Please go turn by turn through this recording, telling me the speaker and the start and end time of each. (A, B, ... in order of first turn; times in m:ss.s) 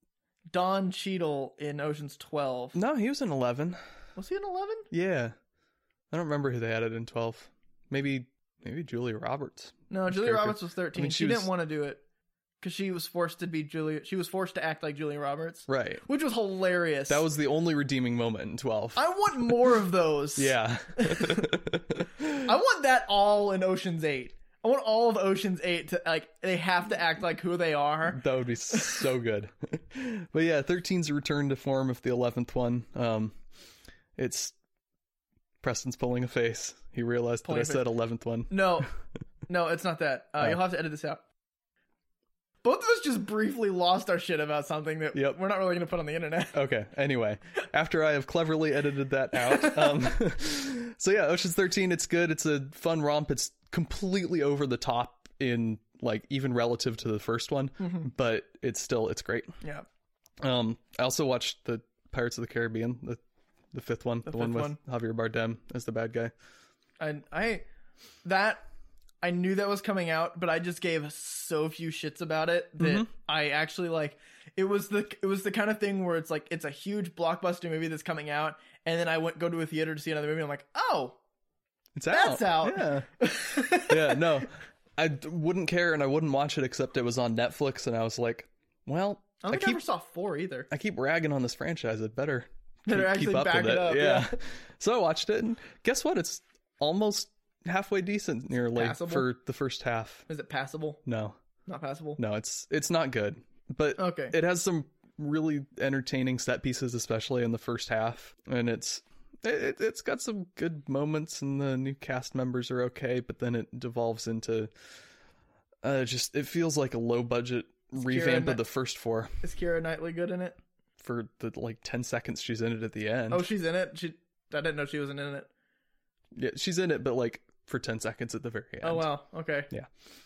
0:00.5-0:02.8 A
0:02.7-0:03.8 B
0:04.2-0:04.9 A
0:04.9-0:05.3 B
0:06.1-0:11.5 B
0:09.9-0:12.0 A
0:12.6-0:17.2 A
0:15.7-0:16.0 B
0:17.1-0:19.0 B
0:19.0-0:21.6 A
0:20.4-0:22.5 B
0:22.4-0:29.0 A
0:28.1-0:33.4 B
0:34.2-0:34.5 B
0:35.6-0:38.8 B
0:37.4-0:37.8 A
0:38.5-0:38.9 A
0:39.5-0:41.2 A
0:42.6-0:46.5 A
0:46.5-0:59.5 B
0:49.4-0:49.9 A
0:57.8-0:58.1 A
1:00.4-1:03.2 B
1:03.7-1:06.3 B
1:04.2-1:04.8 A
1:07.0-1:07.6 A
1:08.2-1:08.6 A
1:09.2-1:21.2 A
1:12.8-1:13.1 B
1:21.9-1:23.1 B
1:22.1-1:24.4 A
1:23.9-1:29.8 B
1:29.4-1:30.7 A
1:30.7-1:40.2 B
1:32.9-1:34.4 A
1:38.7-1:39.3 A
1:40.3-1:41.0 A
1:41.0-1:41.4 B
1:41.6-1:42.2 A
1:42.2-1:54.7 B
1:44.0-1:44.3 A
1:55.8-1:59.3 B
1:58.0-1:58.6 A
1:59.4-2:00.6 A
2:01.0-2:03.5 B
2:03.3-2:05.5 A
2:06.3-2:09.1 B
2:08.8-2:09.7 A